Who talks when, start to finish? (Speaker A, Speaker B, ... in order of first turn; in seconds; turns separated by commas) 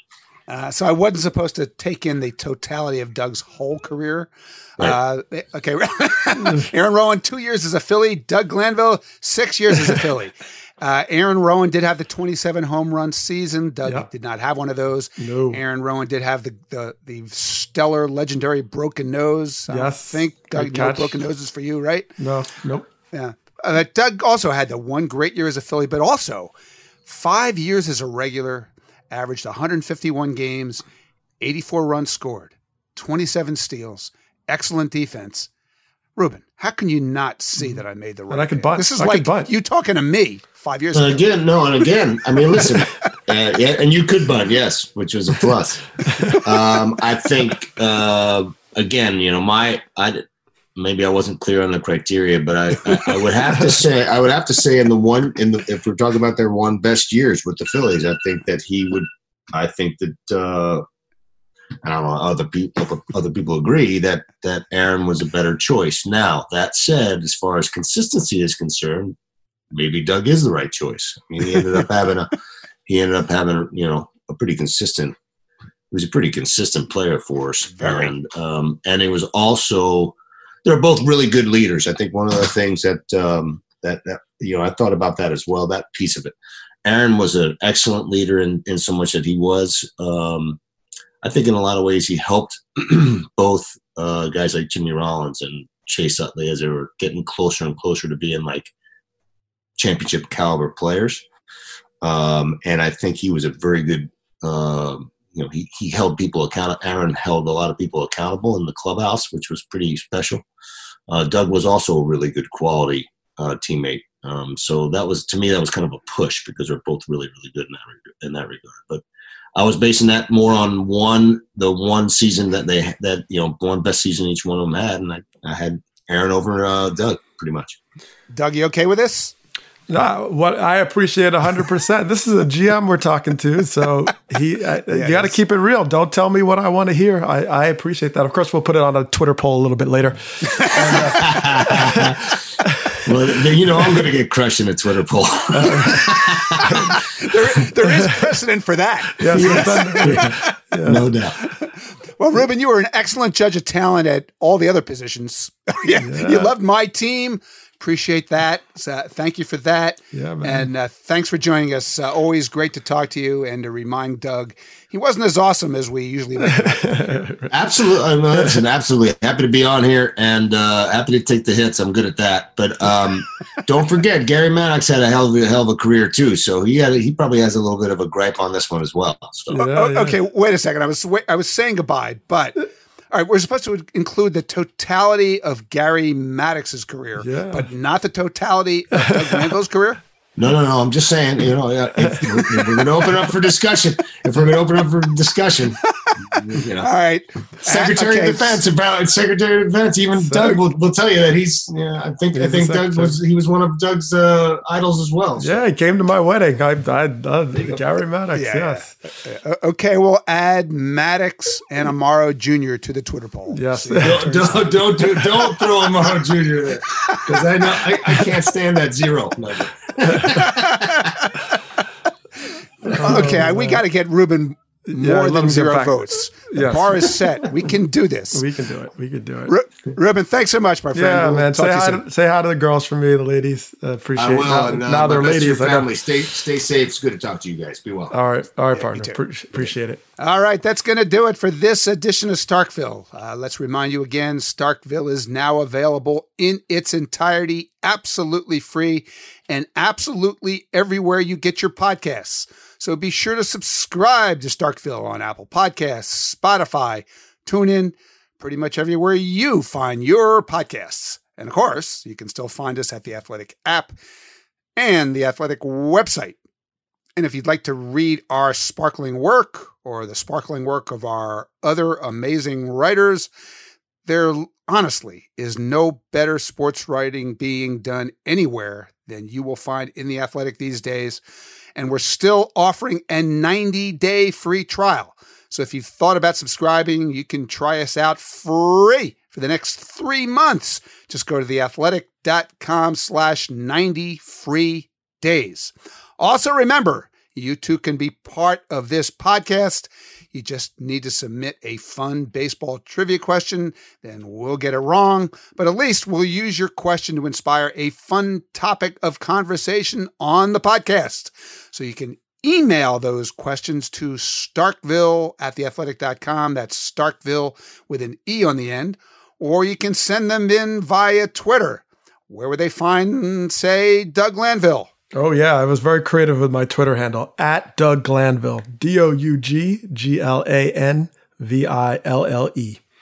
Speaker A: 0.5-22.1, Speaker B: 15.2-15.6, Speaker B: 19.7-21.2, Speaker B: 22.2-22.9, Speaker A: 23.1-26.5, Speaker A: 27.1-30.8, Speaker A: 31.4-35.5, Speaker A: 36.2-41.3, Speaker B: 37.6-39.5, Speaker C: 40.9-60.9, Speaker C: 61.8-69.2, Speaker C: 69.7-72.3, Speaker C: 72.9-75.2, Speaker C: 75.9-86.3, Speaker A: 77.8-78.1, Speaker C: 86.8-90.6, Speaker C: 91.2-98.7, Speaker C: 99.8-101.2, Speaker C: 102.0-110.5, Speaker C: 111.1-119.0, Speaker C: 119.5-127.8, Speaker A: 128.3-129.3, Speaker B: 129.9-142.9, Speaker A: 134.9-135.4, Speaker A: 140.6-141.2, Speaker C: 140.8-142.4, Speaker C: 143.1-147.0, Speaker B: 145.5-146.9, Speaker A: 147.2-150.5, Speaker B: 147.8-148.3, Speaker B: 149.2-151.1, Speaker C: 149.3-151.4, Speaker A: 151.4-167.3, Speaker B: 156.0-156.5, Speaker B: 160.1-160.7, Speaker B: 166.4-167.5, Speaker C: 167.5-179.6, Speaker B: 168.3-168.6, Speaker A: 179.5-190.0, Speaker B: 179.5-180.2, Speaker B: 187.2-187.7, Speaker B: 189.0-189.5, Speaker C: 190.4-195.8, Speaker B: 192.0-193.3, Speaker C: 196.4-196.9, Speaker A: 196.8-198.6, Speaker C: 197.6-205.7, Speaker B: 200.2-200.6, Speaker B: 202.3-203.2, Speaker B: 205.4-209.0, Speaker A: 208.3-214.7, Speaker B: 213.5-215.7, Speaker C: 214.0-221.1, Speaker A: 220.6-221.4, Speaker A: 222.8-228.4, Speaker B: 222.8-223.8, Speaker B: 224.9-227.2, Speaker B: 228.3-229.6, Speaker A: 229.5-232.0, Speaker B: 230.9-236.1, Speaker C: 234.2-238.1, Speaker B: 238.1-240.0, Speaker A: 238.7-239.2, Speaker A: 240.2-263.9, Speaker A: 264.8-266.4, Speaker A: 267.2-273.3, Speaker A: 274.1-281.2, Speaker A: 281.8-324.9, Speaker B: 325.1-332.8